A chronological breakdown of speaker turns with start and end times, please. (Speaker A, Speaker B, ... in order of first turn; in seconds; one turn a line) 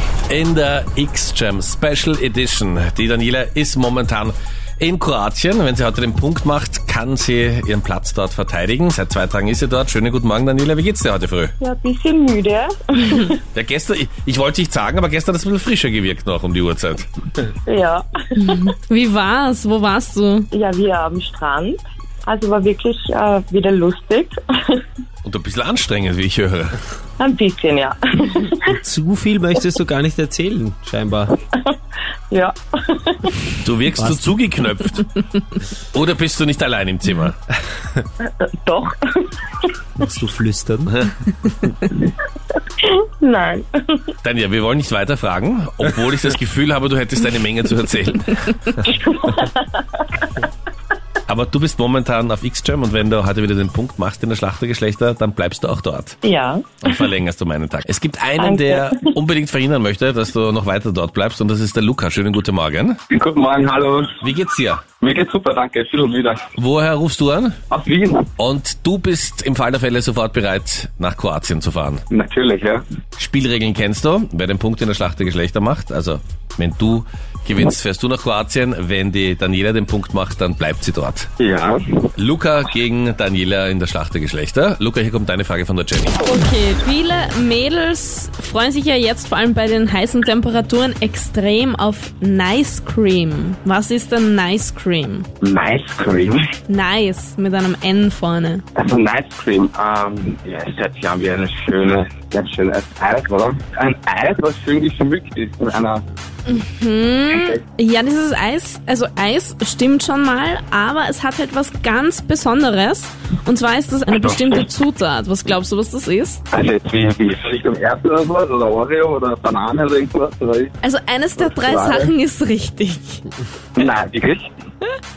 Speaker A: 0.3-11.5
Speaker B: 11.6-13.4
Speaker A: 13.5-17.1
Speaker B: 17.6-18.4
Speaker C: 18.4-20.5
Speaker B: 20.5-24.9
Speaker A: 25.2-26.8
Speaker B: 27.2-28.7
Speaker D: 28.6-31.4
Speaker B: 31.5-31.8
Speaker B: 32.3-33.5
Speaker A: 33.6-35.1
Speaker D: 33.9-34.3
Speaker A: 35.9-37.4
Speaker B: 38.2-39.7
Speaker D: 40.0-40.9
Speaker A: 40.9-41.2
Speaker B: 42.0-44.1
Speaker A: 44.2-48.9
Speaker B: 49.0-50.1
Speaker A: 51.3-56.2
Speaker B: 56.2-56.8
Speaker A: 56.8-63.0
Speaker B: 58.4-59.0
Speaker E: 63.1-64.2
Speaker A: 64.2-64.8
Speaker E: 65.0-66.5
Speaker A: 66.6-67.6
Speaker E: 67.7-68.3
Speaker A: 68.4-72.0
Speaker E: 72.1-72.8
Speaker A: 73.2-81.3
Speaker E: 81.4-82.0
Speaker A: 82.2-86.2
Speaker C: 86.2-95.3
Speaker E: 95.4-96.4
Speaker C: 96.7-98.6
Speaker E: 98.7-106.0
Speaker C: 106.5-116.4
Speaker E: 114.1-114.7
Speaker E: 116.5-120.7
Speaker C: 120.8-123.2
Speaker E: 121.4-122.1
Speaker E: 123.8-124.5